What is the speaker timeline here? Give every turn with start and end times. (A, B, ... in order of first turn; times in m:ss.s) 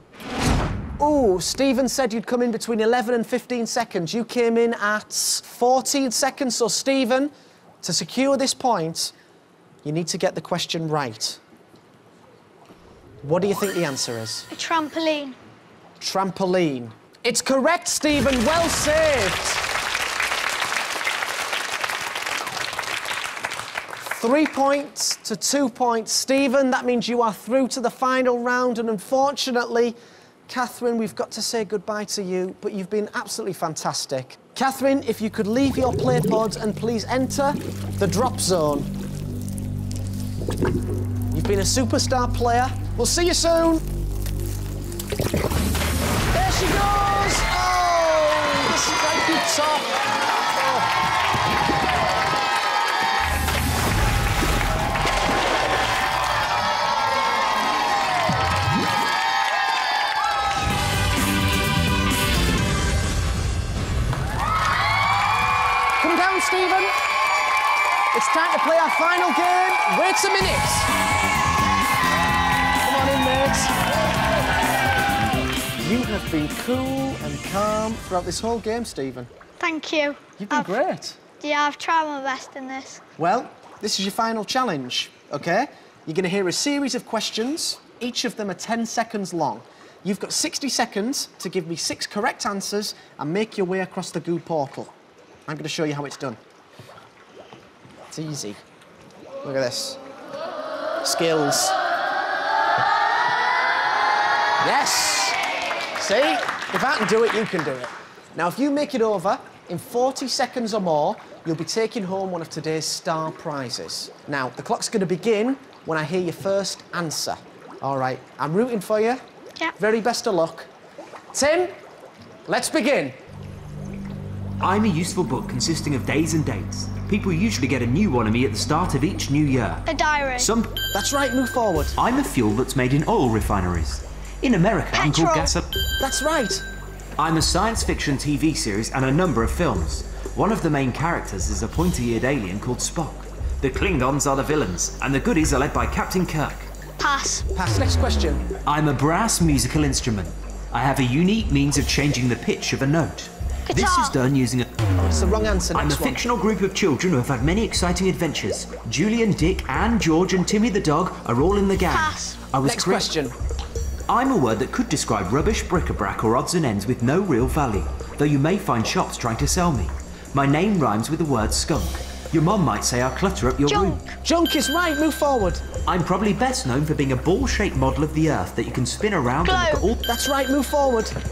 0:01.0-0:07.3 A
0:07.8-0:09.1 A
0:09.8-0:11.4 A
0:13.2-0:14.5 A
0:14.5-0:15.4 B
0:16.0-0:19.6 A
0:24.0-0:30.0 A
0:30.5-0:38.9 A
0:41.3-0:43.8 A
0:46.3-0:49.9 A
0:50.5-0:50.9 A
1:06.0-1:06.9 A
1:08.1-1:10.9 A
1:12.8-1:13.8 A
1:15.8-1:19.3 A
1:19.6-1:20.8 B
1:20.4-1:21.2 A
1:21.4-1:23.0 B
1:23.2-1:34.9 A
1:35.5-1:36.4 A
1:38.1-1:38.6 A
1:39.4-1:40.0 A
1:41.0-1:41.8 A
1:44.6-1:45.4 A
1:46.0-1:59.2 A
1:59.8-2:00.7 A
2:01.3-2:01.7 A
2:02.5-2:03.2 A
2:04.6-2:09.9 C
2:09.9-2:10.5 B
2:10.4-2:10.8 C
2:10.9-2:12.0 A
2:12.0-2:15.8 C
2:14.9-2:15.5 B
2:16.0-2:16.6 A
2:17.2-2:26.7 C
2:27.0-2:27.5 B
2:27.5-2:28.4 A
2:28.6-2:34.7 C
2:33.7-2:34.2 B
2:35.0-2:36.2 A
2:35.7-2:43.1 C
2:41.9-2:42.4 B
2:42.6-2:43.4 A
2:44.1-2:54.0 C
2:53.6-2:54.2 B
2:54.2-2:55.6 A
2:55.8-3:00.0 C
2:59.4-2:59.9 B
3:00.0-3:01.2 A